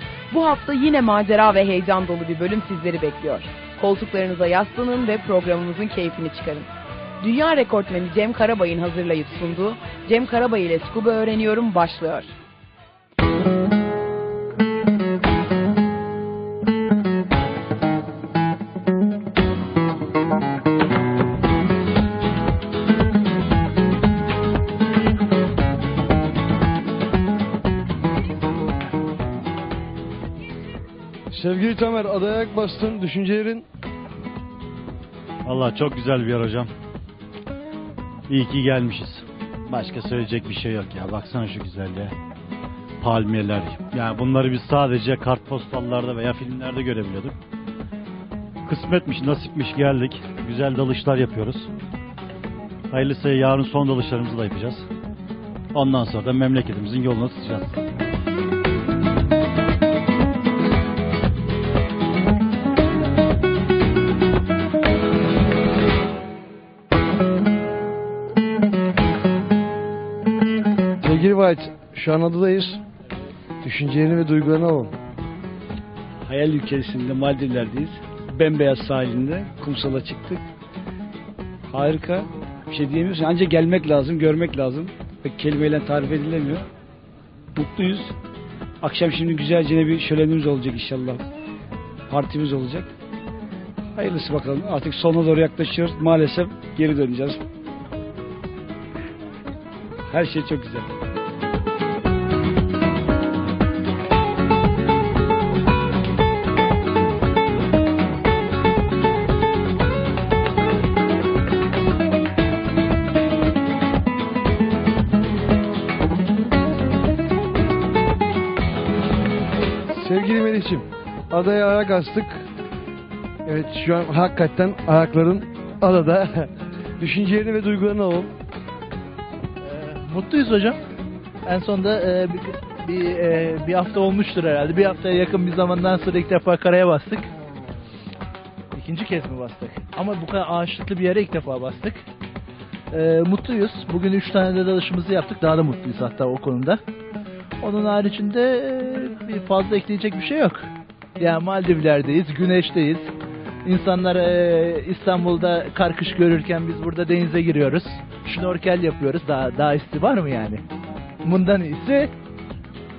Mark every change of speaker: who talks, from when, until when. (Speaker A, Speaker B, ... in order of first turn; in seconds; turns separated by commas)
Speaker A: 0.3-6.7, Speaker A: 7.2-12.3, Speaker B: 31.3-33.6, Speaker C: 35.4-36.7, Speaker C: 38.3-42.1, Speaker C: 43.0-47.4, Speaker C: 48.6-51.7, Speaker C: 52.9-54.9, Speaker C: 55.7-57.8, Speaker B: 71.0-72.8, Speaker B: 73.6-74.9, Speaker D: 76.2-80.4, Speaker D: 81.7-86.7, Speaker D: 87.5-88.1, Speaker D: 88.8-91.2, Speaker D: 92.1-92.9, Speaker D: 94.0-97.4, Speaker D: 100.1-100.9, Speaker B: 119.9-122.4, Speaker B: 123.4-126.5, Speaker B: 127.0-128.3, Speaker E: 129.6-130.8, Speaker E: 131.4-137.3, Speaker E: 138.7-142.0, Speaker E: 142.9-146.8, Speaker E: 147.6-153.1, Speaker E: 153.6-160.6, Speaker E: 161.2-162.1